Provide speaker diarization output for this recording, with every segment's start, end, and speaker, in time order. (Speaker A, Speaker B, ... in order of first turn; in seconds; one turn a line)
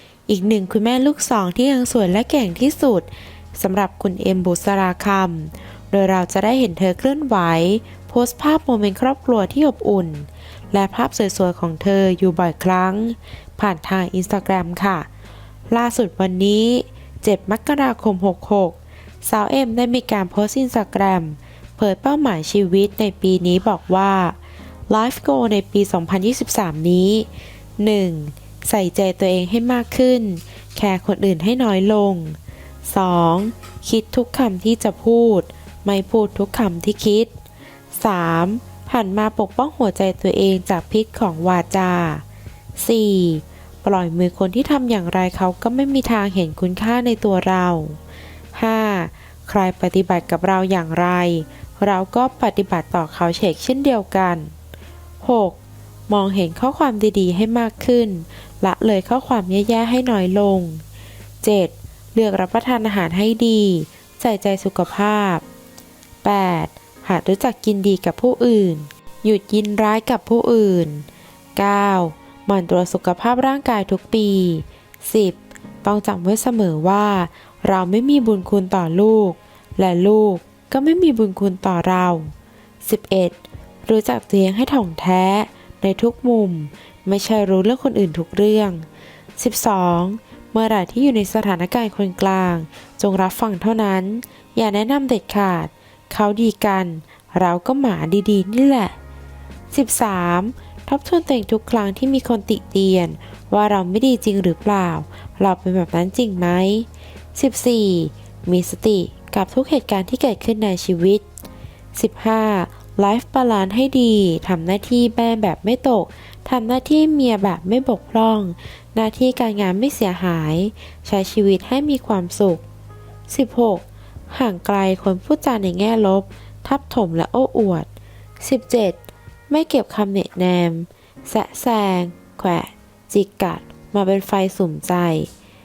Speaker A: 0.3-15.1
Speaker A: 15.7-24.4
Speaker A: 24.9-27.3
Speaker A: 27.8-37.3
Speaker A: 37.9-42.2
Speaker A: 42.8-48.0
Speaker A: 48.5-54.5
Speaker A: 55.2-55.6
Speaker A: 56.1-60.8
Speaker A: 61.4-65.4
Speaker A: 66.2-82.3
Speaker A: 82.8-88.8
Speaker A: 89.4-98.9
Speaker A: 99.7-111.2
Speaker A: 111.9-122.6
Speaker A: 123.3-127.9
Speaker A: 128.4-129.0
Speaker A: 129.5-135.3